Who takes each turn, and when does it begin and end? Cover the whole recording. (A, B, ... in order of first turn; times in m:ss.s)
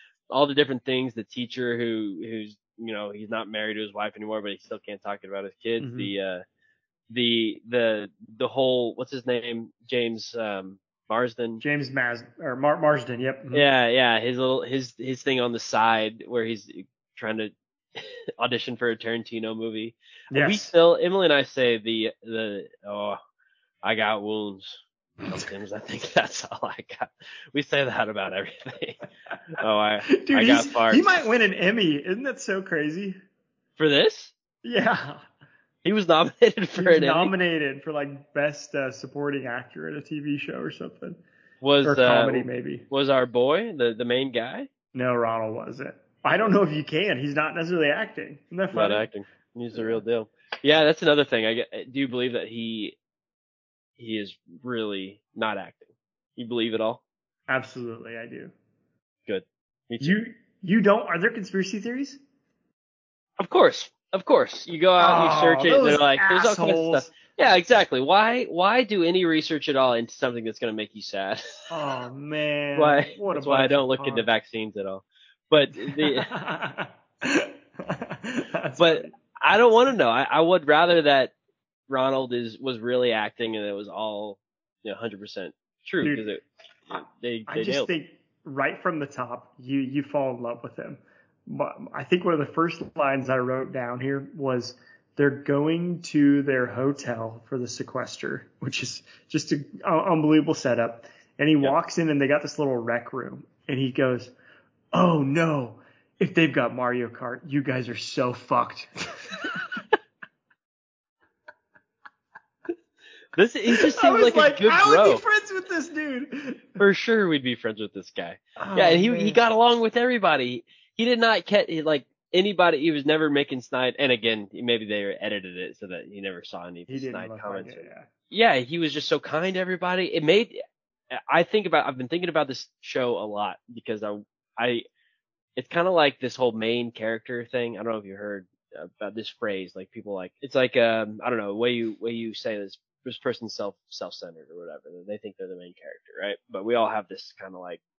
0:00.3-0:06.4 A
0:05.8-0:06.1 B
0:07.1-0:11.6 A
0:11.6-0:13.6 B
0:13.5-0:23.2 A
0:20.3-0:20.7 B
0:23.8-0:29.0 A
0:29.5-0:31.1 A
0:30.1-0:33.2 B
0:33.8-0:34.3 A
0:34.6-0:35.2 B
0:35.8-0:37.3 A
0:36.8-0:41.2 B
0:41.6-0:44.7 A
0:41.8-0:42.8 B
0:44.9-0:49.0 B
0:48.7-0:53.0 A
0:49.7-0:50.0 B
0:54.0-0:57.0 A
0:57.5-0:58.5 B
0:59.3-1:00.2 A
1:00.0-1:02.2 B
1:03.4-1:11.7 A
1:05.0-1:07.1 B
1:11.7-1:14.3 B
1:12.8-1:16.3 A
1:16.0-1:19.1 B
1:18.8-1:21.3 A
1:21.9-1:27.9 A
1:26.0-1:26.3 B
1:27.5-1:44.3 B
1:44.9-1:49.8 B
1:53.3-1:55.2 A
1:53.7-1:56.8 B
1:56.8-2:10.6 A
1:58.6-1:59.4 B
2:06.9-2:08.1 B
2:11.1-2:14.8 A
2:15.6-2:27.8 A